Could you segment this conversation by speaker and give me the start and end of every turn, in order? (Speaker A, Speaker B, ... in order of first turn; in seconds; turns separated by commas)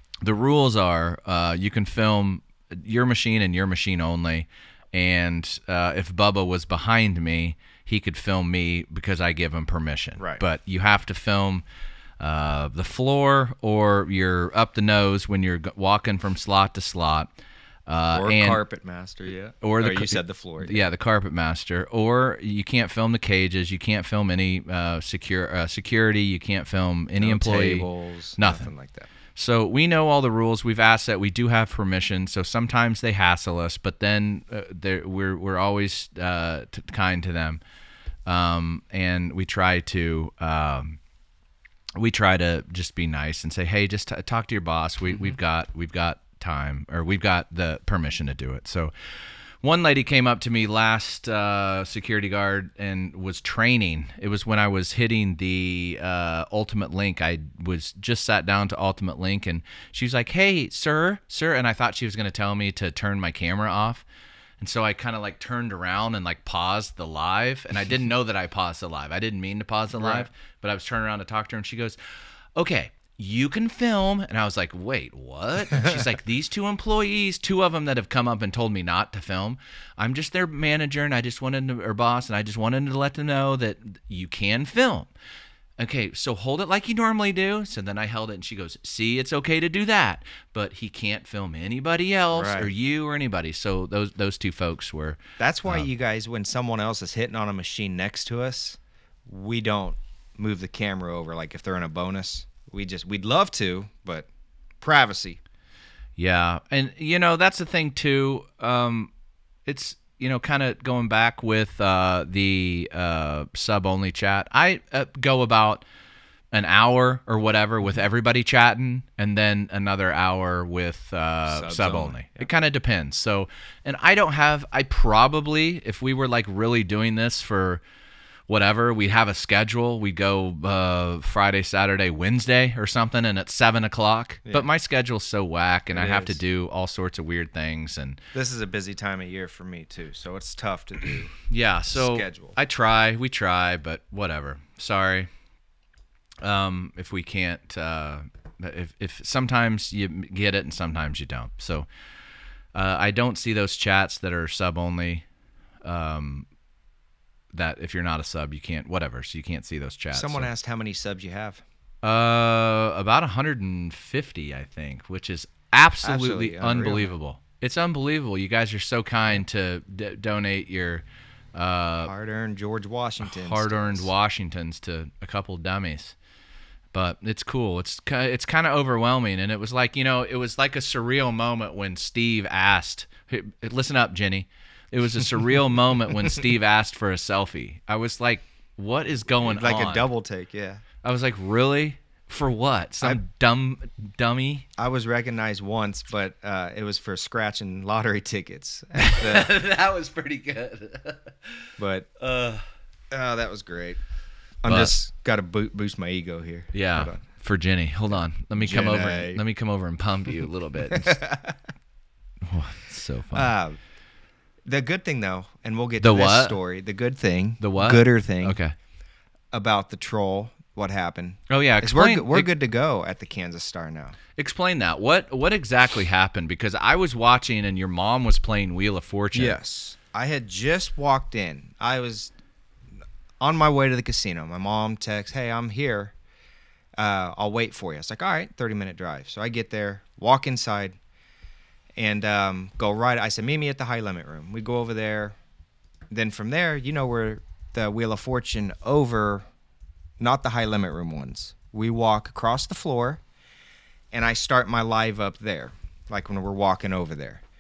Speaker A: 0.2-11.6, Speaker A: 12.2-17.3, Speaker A: 17.9-18.6, Speaker B: 18.1-20.8, Speaker A: 19.6-28.6, Speaker B: 27.2-29.1, Speaker A: 29.3-37.6, Speaker A: 38.3-41.0, Speaker A: 42.0-48.9, Speaker B: 45.1-45.4, Speaker A: 49.6-64.0, Speaker A: 64.6-72.0, Speaker B: 69.9-70.3, Speaker A: 72.5-85.1, Speaker B: 75.8-76.0, Speaker A: 85.8-95.9, Speaker B: 92.3-92.7, Speaker B: 95.4-104.3, Speaker B: 104.8-105.4, Speaker A: 106.2-109.1, Speaker A: 109.7-115.8, Speaker A: 116.5-127.8, Speaker B: 121.5-122.5, Speaker A: 128.5-138.2, Speaker B: 135.9-136.4, Speaker B: 138.3-141.4, Speaker A: 141.5-145.3, Speaker B: 141.9-142.6, Speaker A: 146.4-151.9, Speaker A: 152.7-155.2, Speaker A: 155.8-156.5, Speaker A: 157.5-160.5, Speaker B: 160.1-161.6, Speaker A: 162.0-171.0, Speaker B: 166.0-167.1, Speaker A: 171.5-172.1, Speaker B: 172.0-174.1, Speaker A: 173.2-176.1, Speaker A: 176.9-190.1, Speaker B: 189.4-190.8, Speaker A: 191.0-194.7, Speaker B: 194.8-199.5, Speaker A: 199.0-201.5, Speaker B: 201.8-202.1, Speaker A: 202.2-202.6, Speaker B: 203.1-204.0, Speaker B: 204.6-207.2, Speaker A: 204.7-204.9, Speaker A: 206.7-211.2, Speaker B: 208.6-209.4, Speaker B: 210.9-211.6, Speaker A: 212.4-213.5, Speaker B: 213.3-213.8, Speaker B: 214.6-218.6, Speaker A: 216.0-216.6, Speaker A: 217.6-218.7, Speaker B: 219.5-224.2, Speaker A: 221.5-222.5, Speaker A: 224.3-229.6, Speaker B: 229.3-232.3, Speaker B: 233.4-236.1, Speaker B: 237.0-241.0, Speaker B: 242.0-245.4, Speaker B: 246.1-249.4, Speaker B: 250.2-253.2, Speaker B: 254.1-257.4